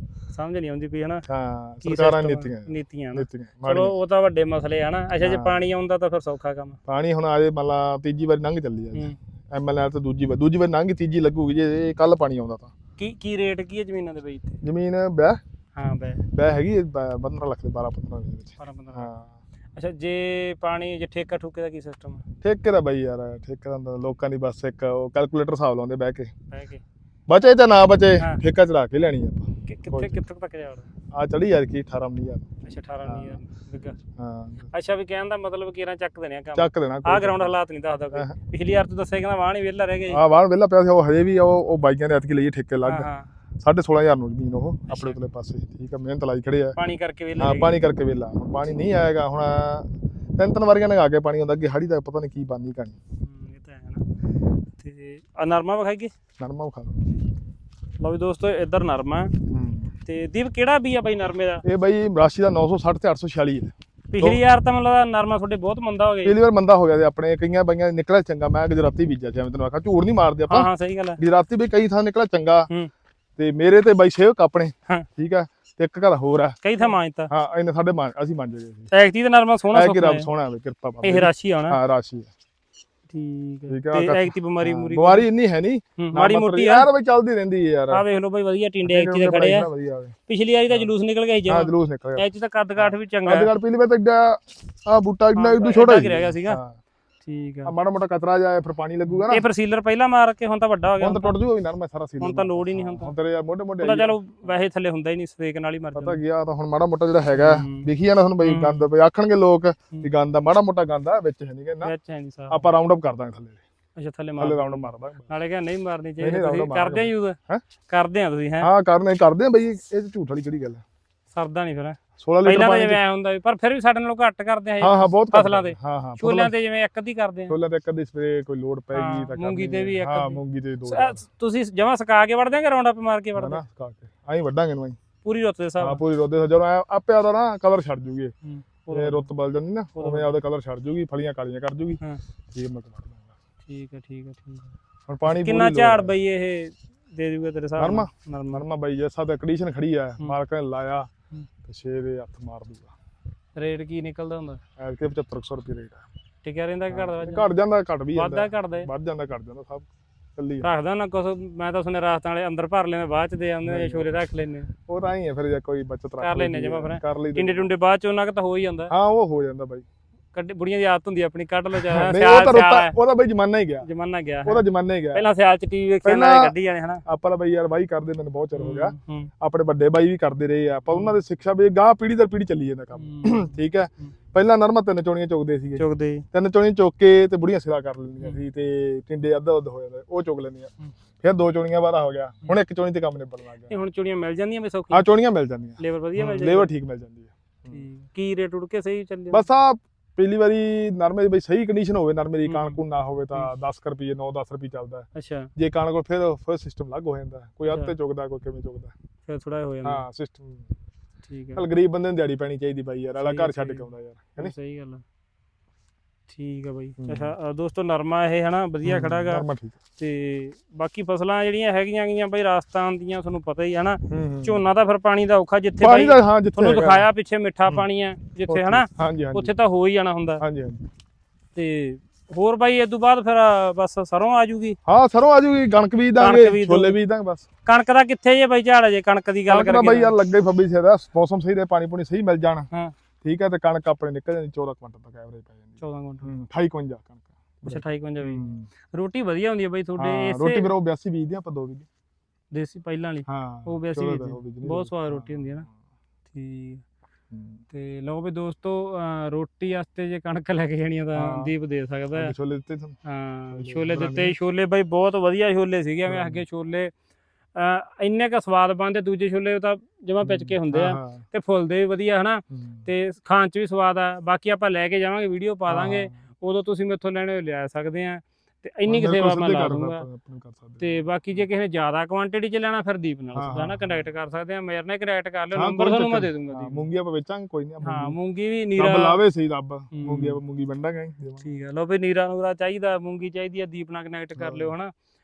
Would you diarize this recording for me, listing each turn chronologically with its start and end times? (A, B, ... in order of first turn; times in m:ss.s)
0:00.3-0:01.2 A
0:01.3-0:03.9 B
0:01.8-0:06.8 A
0:05.2-0:05.6 B
0:06.9-0:12.7 B
0:13.0-0:14.6 A
0:14.6-0:15.4 B
0:15.8-0:16.2 A
0:16.3-0:19.3 B
0:18.6-0:19.1 A
0:19.7-0:22.2 A
0:22.4-0:26.3 B
0:26.5-0:26.8 A
0:27.3-0:30.2 B
0:29.6-0:30.9 A
0:31.1-0:32.4 B
0:32.6-0:34.0 A
0:33.0-0:33.4 B
0:34.2-0:34.7 B
0:34.7-0:40.2 A
0:36.5-0:37.5 B
0:40.1-0:46.8 B
0:42.8-0:43.3 A
0:44.9-0:45.2 A
0:46.8-0:47.7 A
0:47.4-0:53.0 B
0:53.2-0:54.0 A
0:54.8-0:56.1 A
0:56.4-0:57.1 B
0:58.0-0:59.3 A
0:59.5-0:59.9 B
1:00.0-1:01.6 A
1:01.6-1:04.4 B
1:04.1-1:06.4 A
1:06.2-1:12.7 B
1:10.5-1:11.2 A
1:13.4-1:16.6 B
1:16.6-1:17.3 A
1:17.3-1:18.9 B
1:18.9-1:20.3 A
1:19.7-1:22.3 B
1:21.0-1:21.8 A
1:23.1-1:25.2 A
1:23.7-1:28.0 B
1:26.0-1:26.9 A
1:27.9-1:29.7 A
1:28.8-1:30.1 B
1:30.3-1:33.5 A
1:31.5-1:32.2 B
1:32.8-1:36.8 B
1:35.3-1:36.6 A
1:37.2-1:37.7 A
1:37.6-1:39.4 B
1:39.1-1:41.3 A
1:41.0-1:44.5 B
1:42.2-1:43.1 A
1:43.8-1:46.2 A
1:45.9-1:51.9 B
1:47.3-1:47.9 A
1:48.4-1:48.9 A
1:51.8-1:52.7 A
1:52.5-1:53.6 B
1:54.0-1:57.4 A
1:54.4-1:55.3 B
1:56.2-1:57.6 B
1:57.9-1:58.7 A
1:58.6-2:00.8 B
2:01.3-2:07.6 A
2:02.2-2:03.0 B
2:04.8-2:06.5 B
2:07.5-2:11.2 B
2:08.9-2:13.6 A
2:13.4-2:15.0 B
2:15.2-2:16.0 A
2:15.8-2:18.3 B
2:18.4-2:19.3 A
2:18.9-2:22.0 B
2:20.0-2:20.4 A
2:22.5-2:23.3 B
2:23.6-2:24.7 A
2:25.1-2:26.1 B
2:25.3-2:28.6 A
2:27.8-2:31.1 B
2:31.6-2:32.9 B
2:33.6-2:34.6 A
2:34.8-2:36.0 B
2:36.4-2:37.4 A
2:36.9-2:40.7 B
2:38.1-2:38.9 A
2:40.6-2:44.7 A
2:43.6-2:44.1 B
2:44.9-2:47.7 B
2:46.2-2:48.9 A
2:48.9-2:49.8 B
2:50.3-2:53.0 A
2:51.7-2:53.9 B
2:53.8-2:54.6 A
2:54.4-2:55.2 B
2:55.1-2:57.0 A
2:56.0-2:56.5 B
2:57.0-3:10.7 B
2:58.5-2:59.3 A
3:00.9-3:01.2 A
3:03.0-3:04.1 A
3:05.8-3:06.2 A
3:11.2-3:13.7 B
3:13.7-3:15.0 A
3:14.9-3:17.9 B
3:15.8-3:16.7 A
3:17.7-3:19.4 A
3:19.3-3:28.9 B
3:22.4-3:22.8 A
3:25.1-3:25.5 A
3:29.3-3:30.0 A
3:29.8-3:30.6 B
3:31.2-3:31.6 A
3:31.5-3:34.5 B
3:33.2-3:35.0 A
3:36.3-3:39.4 A
3:37.0-3:37.3 B
3:38.8-3:39.8 B
3:40.0-3:50.4 A
3:44.1-3:44.6 B
3:45.8-3:47.1 B
3:48.5-3:49.5 B
3:50.4-3:50.8 B
3:51.5-3:54.8 A
3:54.8-3:57.4 B
3:56.2-3:57.0 A
3:57.6-4:00.1 A
3:59.5-4:02.7 B
4:03.2-4:08.7 B
4:05.8-4:06.3 A
4:07.6-4:10.7 A
4:10.0-4:11.9 B
4:12.5-4:15.6 A
4:13.3-4:15.7 B
4:16.3-4:16.8 A
4:17.3-4:17.6 B
4:17.7-4:22.3 A
4:21.1-4:21.5 B
4:22.1-4:23.0 B
4:23.0-4:26.9 A
4:23.5-4:24.4 B
4:26.0-4:26.4 B
4:27.5-4:40.0 A
4:30.2-4:31.2 B
4:32.5-4:32.9 B
4:35.7-4:36.1 B
4:38.8-4:41.4 B
4:40.8-4:46.9 A
4:43.3-4:44.1 B
4:45.5-4:48.2 B
4:47.8-4:49.2 A
4:48.8-4:51.4 B
4:49.9-4:50.4 A
4:51.4-4:54.9 A
4:54.4-4:54.7 B